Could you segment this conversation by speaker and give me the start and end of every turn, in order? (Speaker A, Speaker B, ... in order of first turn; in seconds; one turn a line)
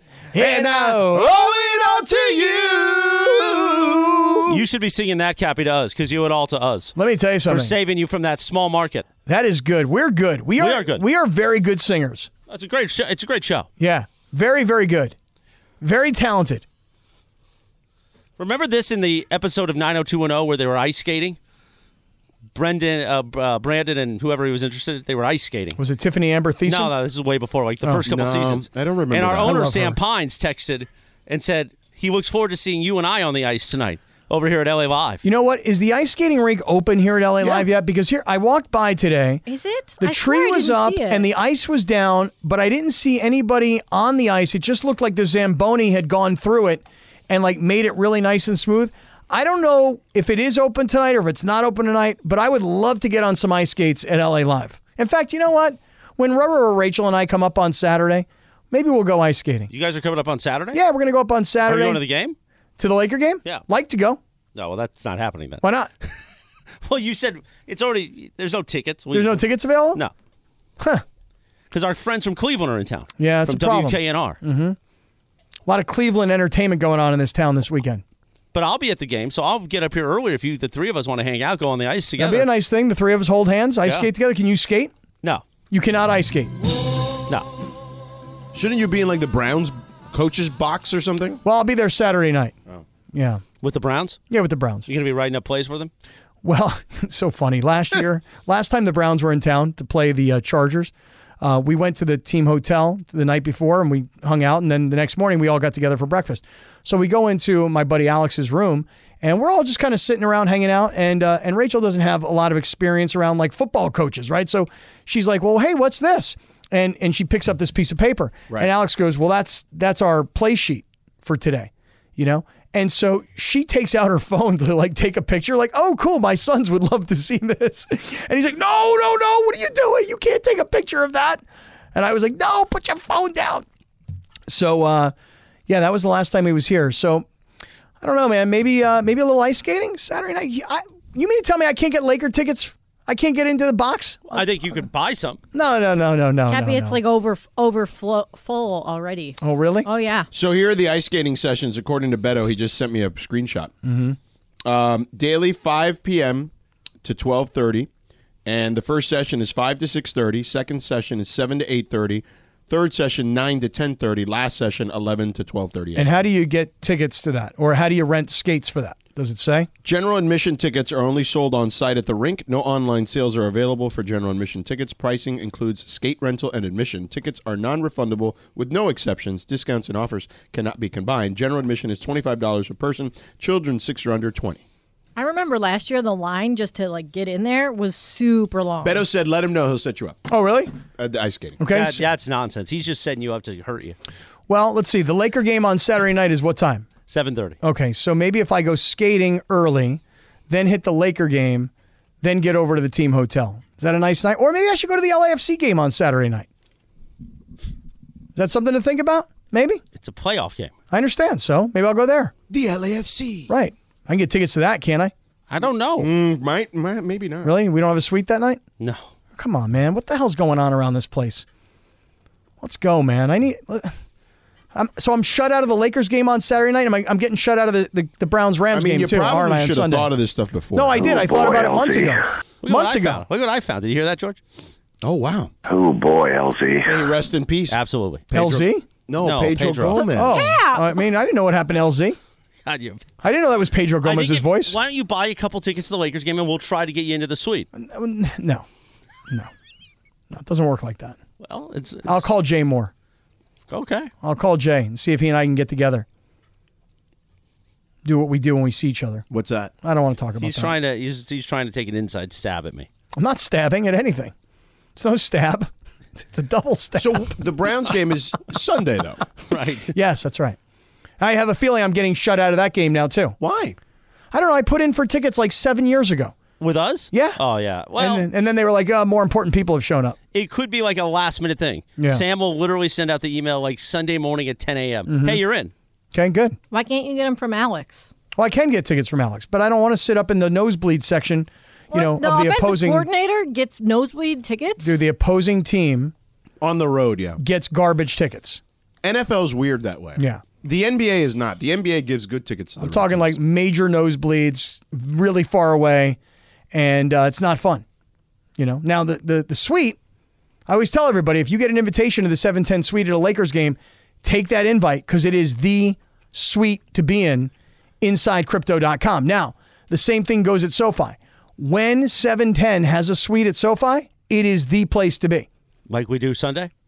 Speaker A: 0.3-1.3
Speaker B: 0.3-4.6
Speaker C: 4.5-7.0
Speaker A: 7.0-7.7
Speaker C: 7.5-9.1
Speaker A: 9.3-12.3
Speaker C: 10.6-11.0
Speaker C: 12.5-13.7
Speaker A: 13.8-15.2
Speaker A: 15.8-16.6
Speaker C: 18.4-21.4
Speaker C: 22.5-25.8
Speaker A: 25.8-26.9
Speaker C: 26.7-35.2
Speaker B: 28.1-29.7
Speaker A: 29.4-30.0
Speaker A: 35.2-39.4
Speaker B: 37.4-37.7
Speaker D: 39.5-41.3
Speaker A: 40.0-59.7
Speaker C: 59.7-60.8
Speaker A: 60.7-62.0
Speaker C: 61.7-62.4
Speaker A: 62.8-64.2
Speaker C: 64.5-65.6
Speaker A: 65.6-65.9
Speaker C: 66.8-70.1
Speaker A: 69.1-70.0
Speaker A: 70.8-71.0
Speaker C: 71.7-74.4
Speaker A: 73.2-74.8
Speaker A: 75.7-78.0
Speaker C: 78.5-82.5
Speaker A: 82.2-84.9
Speaker A: 85.7-86.5
Speaker B: 88.5-91.4
Speaker A: 91.4-92.5
Speaker A: 93.1-93.4
Speaker C: 93.6-94.2
Speaker A: 94.3-94.9
Speaker C: 94.9-95.9
Speaker A: 96.4-131.4
Speaker A: 131.9-133.7
Speaker A: 134.5-135.1
Speaker A: 135.7-137.2
Speaker A: 138.0-144.8
Speaker C: 144.3-145.4
Speaker A: 145.5-147.0
Speaker D: 146.5-150.3
Speaker A: 149.4-149.9
Speaker B: 150.3-153.7
Speaker A: 153.8-154.2
Speaker B: 154.7-156.5
Speaker B: 157.0-157.9
Speaker B: 158.4-166.2
Speaker A: 165.9-169.7
Speaker B: 169.8-184.6
Speaker D: 185.2-189.0
Speaker B: 188.8-190.2
Speaker A: 190.3-190.7
Speaker B: 191.0-191.6
Speaker A: 191.6-192.0
Speaker C: 191.7-194.0
Speaker A: 194.5-196.9
Speaker C: 197.1-197.6
Speaker A: 197.6-201.7
Speaker A: 202.2-206.5
Speaker A: 208.4-209.8
Speaker C: 209.9-210.7
Speaker A: 210.9-212.3
Speaker B: 212.5-213.5
Speaker A: 213.5-215.1
Speaker C: 215.5-216.1
Speaker B: 216.0-217.5
Speaker A: 217.4-218.6
Speaker C: 218.8-219.1
Speaker A: 219.4-221.4
Speaker A: 222.6-223.9
Speaker A: 224.7-230.1
Speaker B: 228.7-231.2
Speaker A: 230.7-233.2
Speaker E: 231.0-232.3
Speaker C: 232.6-234.4
Speaker B: 235.0-235.5
Speaker E: 235.7-237.1
Speaker B: 236.9-237.8
Speaker C: 237.7-238.2
Speaker B: 238.3-240.5
Speaker A: 238.3-238.8
Speaker C: 239.2-240.1
Speaker A: 240.1-242.2
Speaker D: 240.2-241.0
Speaker C: 242.7-243.0
Speaker A: 243.2-244.8
Speaker C: 244.0-247.7
Speaker A: 247.8-248.7
Speaker A: 250.3-251.2
Speaker C: 251.4-252.3
Speaker A: 252.1-252.9
Speaker C: 253.7-254.1
Speaker A: 254.2-256.1
Speaker A: 258.1-259.3
Speaker B: 259.3-259.7
Speaker A: 259.8-260.7
Speaker C: 260.4-262.9
Speaker A: 263.2-264.3
Speaker A: 265.0-265.7
Speaker A: 266.2-267.4
Speaker B: 267.0-269.3
Speaker C: 269.5-269.9
Speaker A: 269.9-270.6
Speaker A: 271.2-273.4
Speaker B: 273.4-273.8
Speaker A: 274.3-276.3
Speaker C: 276.6-278.3
Speaker A: 277.1-277.4
Speaker A: 278.0-280.2
Speaker C: 280.3-285.7
Speaker A: 285.1-285.4
Speaker A: 286.1-286.6
Speaker D: 286.7-288.1
Speaker A: 288.4-293.1
Speaker D: 291.9-295.0
Speaker A: 294.8-296.1
Speaker B: 296.6-297.4
Speaker A: 297.4-298.6
Speaker B: 299.0-303.4
Speaker A: 300.2-300.4
Speaker A: 302.8-306.2
Speaker A: 306.7-307.9
Speaker A: 308.6-310.0
Speaker A: 310.7-325.5
Speaker C: 325.9-326.7